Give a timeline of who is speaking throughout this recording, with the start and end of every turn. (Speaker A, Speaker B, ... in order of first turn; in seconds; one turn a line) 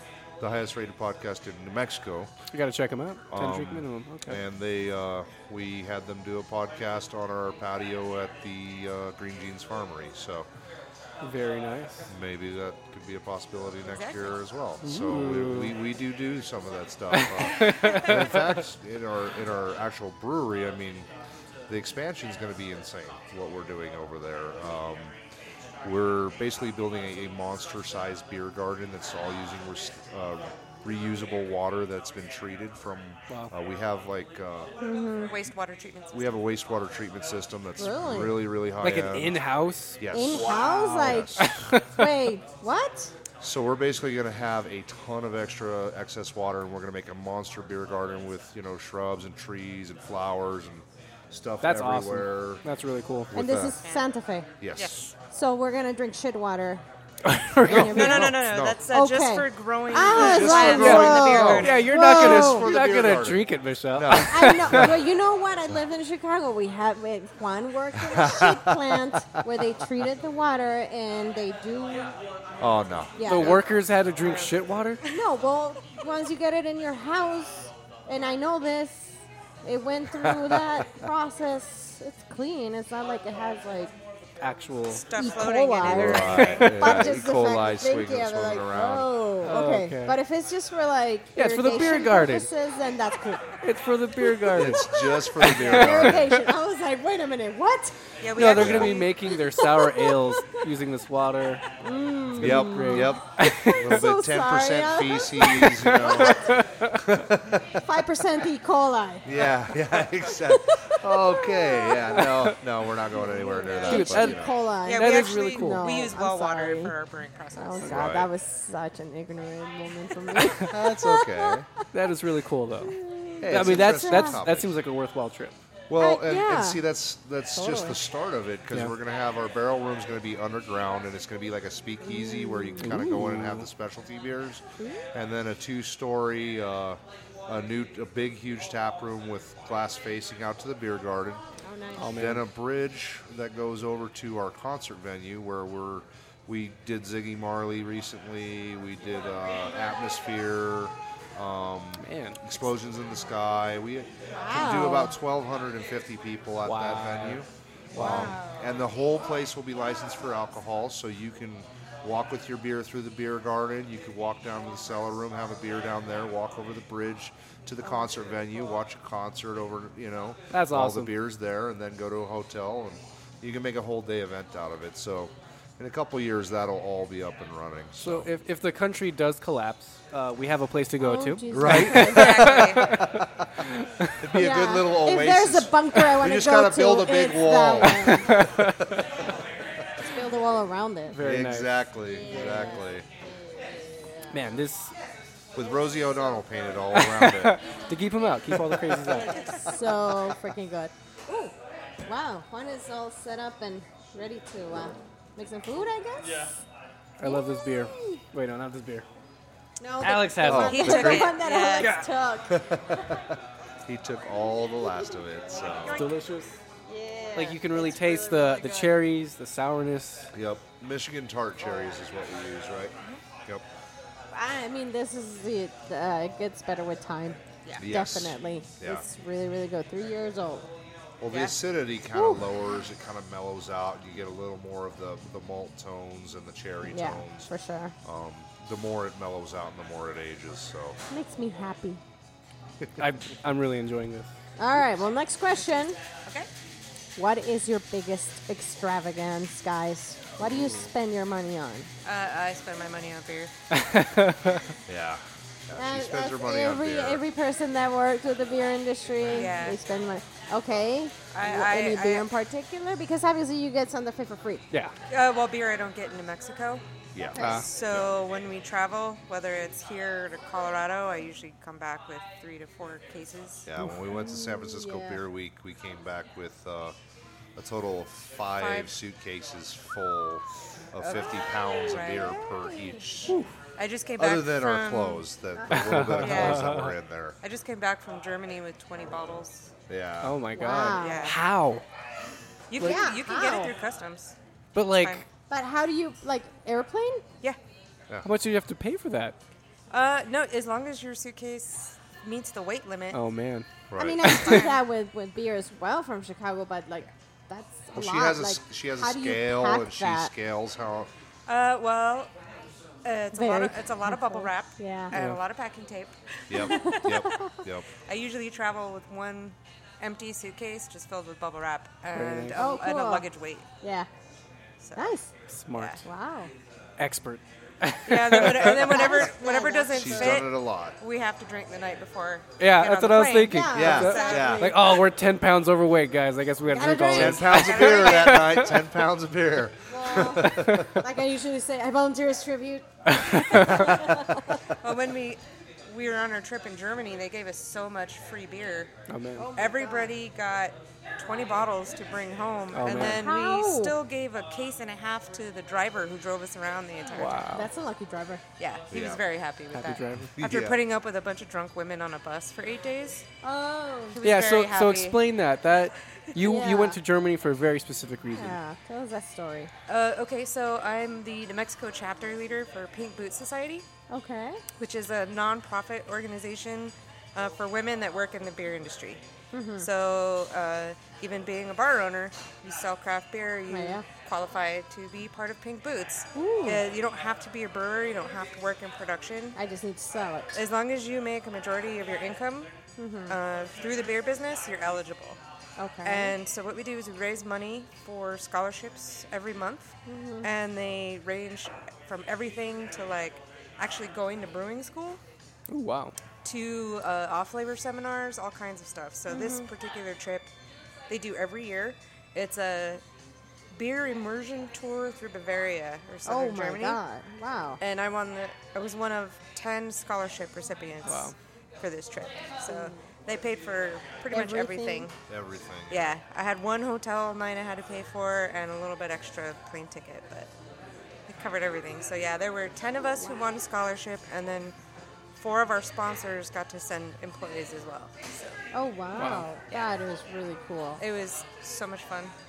Speaker A: 0.4-2.3
Speaker B: 2.5-4.4
Speaker A: 3.3-10.5
Speaker B: 11.2-12.1
Speaker A: 12.1-21.1
Speaker C: 13.9-14.3
Speaker B: 14.8-15.8
Speaker B: 17.1-18.4
Speaker A: 21.7-25.1
Speaker A: 25.8-34.7
Speaker D: 34.8-35.3
Speaker C: 35.2-36.4
Speaker A: 36.1-39.4
Speaker D: 37.8-38.5
Speaker B: 38.8-42.1
Speaker A: 40.0-41.6
Speaker D: 40.1-41.4
Speaker D: 41.9-43.1
Speaker A: 43.4-52.6
Speaker B: 51.6-53.3
Speaker A: 53.3-53.8
Speaker D: 53.3-54.5
Speaker A: 54.6-55.1
Speaker C: 54.8-55.1
Speaker D: 55.3-56.8
Speaker B: 57.2-58.3
Speaker D: 57.6-58.4
Speaker A: 57.6-58.8
Speaker C: 57.9-61.9
Speaker D: 58.9-62.7
Speaker A: 60.1-65.0
Speaker B: 60.6-64.9
Speaker D: 64.1-72.2
Speaker A: 68.0-69.4
Speaker A: 72.6-73.6
Speaker D: 73.2-73.7
Speaker B: 73.2-75.0
Speaker C: 74.2-75.1
Speaker D: 75.0-83.9
Speaker A: 80.2-80.6
Speaker B: 84.4-85.0
Speaker C: 84.9-86.7
Speaker D: 85.1-93.7
Speaker A: 85.8-89.1
Speaker B: 85.9-87.2
Speaker B: 89.4-90.2
Speaker B: 91.4-92.5
Speaker B: 93.6-94.9
Speaker D: 94.2-98.0
Speaker A: 94.5-96.4
Speaker B: 95.4-96.4
Speaker C: 98.2-99.3
Speaker B: 98.3-101.6
Speaker A: 98.4-99.0
Speaker D: 99.3-100.6
Speaker D: 101.8-106.5
Speaker B: 102.4-104.0
Speaker A: 102.4-107.8
Speaker B: 106.3-106.9
Speaker D: 107.8-109.4
Speaker A: 109.2-114.5
Speaker D: 110.3-112.3
Speaker D: 113.1-117.0
Speaker B: 113.9-115.9
Speaker C: 114.8-118.0
Speaker D: 117.5-121.9
Speaker A: 117.8-118.3
Speaker A: 120.7-121.7
Speaker B: 121.9-125.6
Speaker D: 122.8-124.4
Speaker A: 123.4-124.8
Speaker A: 125.9-134.6
Speaker D: 126.0-126.8
Speaker D: 127.5-128.0
Speaker D: 132.0-132.9
Speaker B: 132.8-133.7
Speaker D: 134.8-135.1
Speaker A: 135.1-141.4
Speaker D: 141.6-142.2
Speaker B: 142.0-142.4
Speaker A: 142.1-178.3
Speaker B: 152.0-152.4
Speaker D: 154.3-155.2
Speaker B: 156.7-157.4
Speaker B: 157.9-158.4
Speaker D: 157.9-158.8
Speaker B: 170.5-171.1
Speaker B: 178.0-183.2
Speaker D: 181.0-182.6
Speaker A: 181.5-183.6
Speaker C: 181.9-183.0
Speaker B: 183.8-184.2
Speaker A: 184.2-189.0
Speaker D: 184.3-188.4
Speaker B: 188.2-189.0
Speaker D: 190.0-191.2
Speaker B: 191.1-192.8
Speaker A: 191.2-193.1
Speaker D: 192.0-194.4
Speaker B: 194.3-194.9
Speaker A: 195.5-197.6
Speaker B: 197.0-199.4
Speaker D: 199.1-206.5
Speaker B: 207.2-209.1
Speaker D: 207.2-208.2
Speaker D: 209.8-213.0
Speaker B: 210.0-212.1
Speaker A: 210.4-211.4
Speaker C: 210.6-212.1
Speaker A: 212.5-216.1
Speaker C: 215.6-216.2
Speaker B: 215.9-216.5
Speaker D: 216.8-218.9
Speaker B: 217.4-220.3
Speaker A: 220.3-223.7
Speaker D: 224.3-230.7
Speaker A: 227.8-229.0
Speaker A: 231.2-237.5
Speaker C: 231.3-231.6
Speaker D: 232.1-232.4
Speaker D: 236.9-237.9
Speaker A: 238.0-241.0
Speaker D: 241.1-242.0
Speaker B: 243.0-244.3
Speaker D: 244.6-246.0
Speaker D: 247.2-251.9
Speaker C: 252.1-253.5
Speaker B: 253.7-254.7
Speaker A: 254.9-257.2
Speaker D: 255.8-264.6
Speaker C: 259.3-259.8
Speaker C: 261.3-262.3
Speaker C: 265.1-266.8
Speaker A: 267.1-268.0
Speaker D: 267.3-267.7
Speaker B: 267.4-267.6
Speaker C: 267.4-273.7
Speaker A: 273.7-276.9
Speaker D: 274.0-275.2
Speaker A: 277.6-283.4
Speaker C: 278.6-278.9
Speaker C: 281.0-281.4
Speaker C: 281.9-282.4
Speaker D: 281.9-283.0
Speaker C: 283.8-285.3
Speaker A: 284.2-287.4
Speaker D: 285.6-286.0
Speaker B: 285.7-286.9
Speaker C: 286.1-286.7
Speaker C: 287.4-289.7
Speaker A: 289.9-290.4
Speaker B: 290.2-291.9
Speaker D: 290.6-291.3
Speaker C: 290.9-291.4
Speaker C: 292.7-294.4
Speaker D: 292.8-293.7
Speaker B: 294.8-295.3
Speaker C: 294.9-295.2
Speaker D: 295.5-297.2
Speaker B: 298.2-299.4
Speaker C: 299.9-303.2
Speaker B: 303.1-303.7
Speaker A: 303.9-304.4
Speaker D: 304.0-310.3
Speaker C: 304.2-304.8
Speaker B: 304.2-304.7
Speaker A: 307.9-311.1
Speaker C: 311.5-312.3
Speaker C: 313.0-317.4
Speaker D: 313.3-315.1
Speaker B: 315.1-315.4
Speaker A: 316.5-317.9
Speaker D: 316.6-317.5
Speaker C: 318.1-323.7
Speaker B: 322.1-322.6
Speaker D: 322.5-323.3
Speaker D: 323.8-324.1
Speaker C: 324.8-325.1
Speaker D: 325.0-325.3
Speaker B: 325.5-326.0
Speaker C: 325.7-326.0
Speaker D: 326.0-326.5
Speaker B: 327.0-329.0
Speaker C: 328.1-334.8
Speaker D: 328.7-330.4
Speaker A: 329.9-331.0
Speaker B: 332.6-338.8
Speaker D: 333.5-335.0
Speaker A: 333.7-334.7
Speaker D: 336.7-337.7
Speaker A: 337.1-341.0
Speaker C: 337.4-338.6
Speaker D: 339.9-344.6
Speaker B: 340.5-340.9
Speaker B: 343.1-344.1
Speaker C: 344.8-348.9
Speaker B: 349.1-349.5
Speaker D: 349.4-350.1
Speaker C: 349.6-357.5
Speaker B: 352.7-353.2
Speaker D: 352.9-354.0
Speaker B: 357.1-357.7
Speaker D: 357.5-358.4
Speaker C: 358.6-363.3
Speaker A: 358.9-359.2
Speaker B: 359.7-360.3
Speaker A: 360.4-360.8
Speaker D: 363.4-364.2
Speaker C: 364.1-365.3
Speaker B: 364.2-368.6
Speaker D: 366.4-367.0
Speaker D: 368.3-369.7
Speaker C: 369.9-373.9
Speaker D: 374.1-374.6
Speaker C: 374.8-379.2
Speaker D: 379.5-379.9
Speaker C: 379.8-389.6
Speaker D: 383.7-384.1
Speaker D: 386.4-386.8
Speaker D: 389.6-390.6
Speaker C: 390.5-392.7
Speaker D: 393.0-393.4
Speaker C: 393.3-395.4
Speaker D: 395.8-396.4
Speaker C: 396.0-405.2
Speaker D: 400.1-400.5
Speaker B: 405.7-406.1
Speaker C: 406.4-410.5
Speaker D: 409.3-409.7
Speaker C: 411.1-413.0
Speaker C: 413.7-417.0
Speaker D: 416.3-417.8
Speaker C: 417.8-425.1
Speaker B: 421.1-421.3
Speaker D: 422.7-423.0
Speaker D: 424.3-425.1
Speaker A: 425.3-426.2
Speaker C: 425.9-430.5
Speaker C: 431.3-434.7
Speaker C: 435.4-438.6
Speaker D: 438.7-441.0
Speaker B: 439.2-439.5
Speaker C: 441.0-442.3